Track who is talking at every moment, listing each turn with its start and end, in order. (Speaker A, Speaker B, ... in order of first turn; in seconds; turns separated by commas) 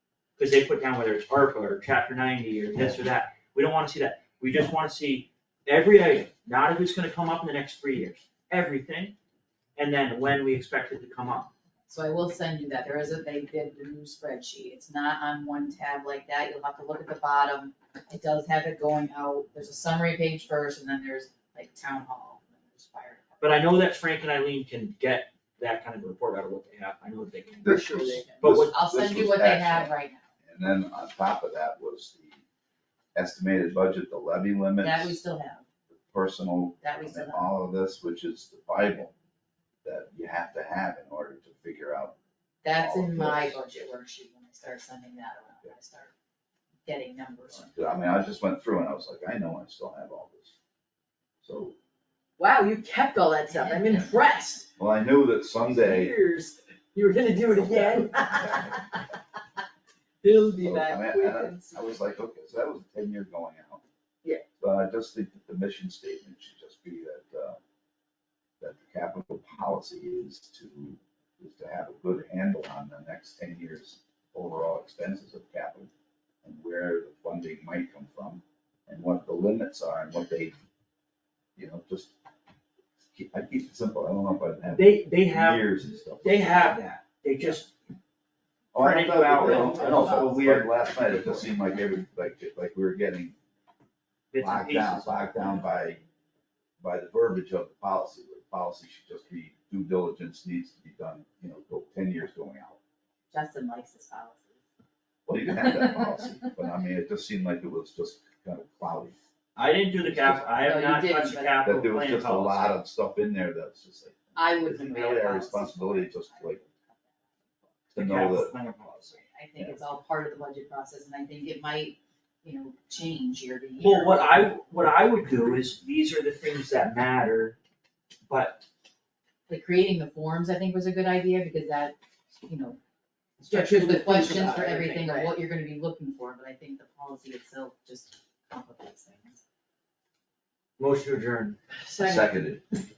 Speaker A: 0.4-9.2, Speaker A: 9.8-11.5, Speaker B: 11.9-23.6, Speaker A: 23.4-27.8, Speaker C: 27.6-28.2, Speaker D: 27.6-32.4, Speaker B: 28.0-30.3, Speaker A: 28.4-28.8, Speaker D: 33.1-35.2, Speaker B: 34.8-35.7, Speaker D: 36.1-39.1, Speaker B: 36.8-37.5, Speaker D: 39.8-42.1, Speaker B: 42.6-46.1, Speaker D: 42.7-43.6, Speaker B: 46.9-47.7, Speaker D: 47.5-50.5, Speaker D: 51.4-51.8, Speaker C: 52.4-54.7, Speaker B: 53.5-54.2, Speaker D: 54.8-56.1, Speaker C: 55.7-59.1, Speaker D: 57.6-58.8, Speaker C: 60.2-61.9, Speaker D: 60.5-63.8, Speaker D: 64.6-67.6, Speaker D: 68.6-75.9, Speaker D: 76.4-80.5, Speaker D: 81.6-82.1, Speaker D: 83.1-86.8, Speaker A: 84.7-85.7, Speaker A: 86.2-87.7, Speaker D: 88.7-93.4, Speaker A: 88.8-91.5, Speaker B: 89.4-90.3, Speaker A: 94.3-95.7, Speaker D: 94.4-96.0, Speaker D: 96.8-102.8, Speaker B: 103.3-104.6, Speaker D: 105.3-109.2, Speaker A: 109.6-112.8, Speaker D: 110.0-110.5, Speaker B: 110.6-111.6, Speaker D: 111.6-116.6, Speaker B: 114.4-117.2, Speaker D: 117.9-118.5, Speaker A: 118.0-119.2, Speaker B: 119.1-124.5, Speaker A: 123.8-127.6, Speaker A: 128.3-128.7, Speaker B: 129.5-132.8, Speaker A: 133.4-135.3, Speaker B: 133.4-139.4, Speaker A: 140.8-141.6, Speaker B: 141.9-142.3, Speaker D: 142.0-142.6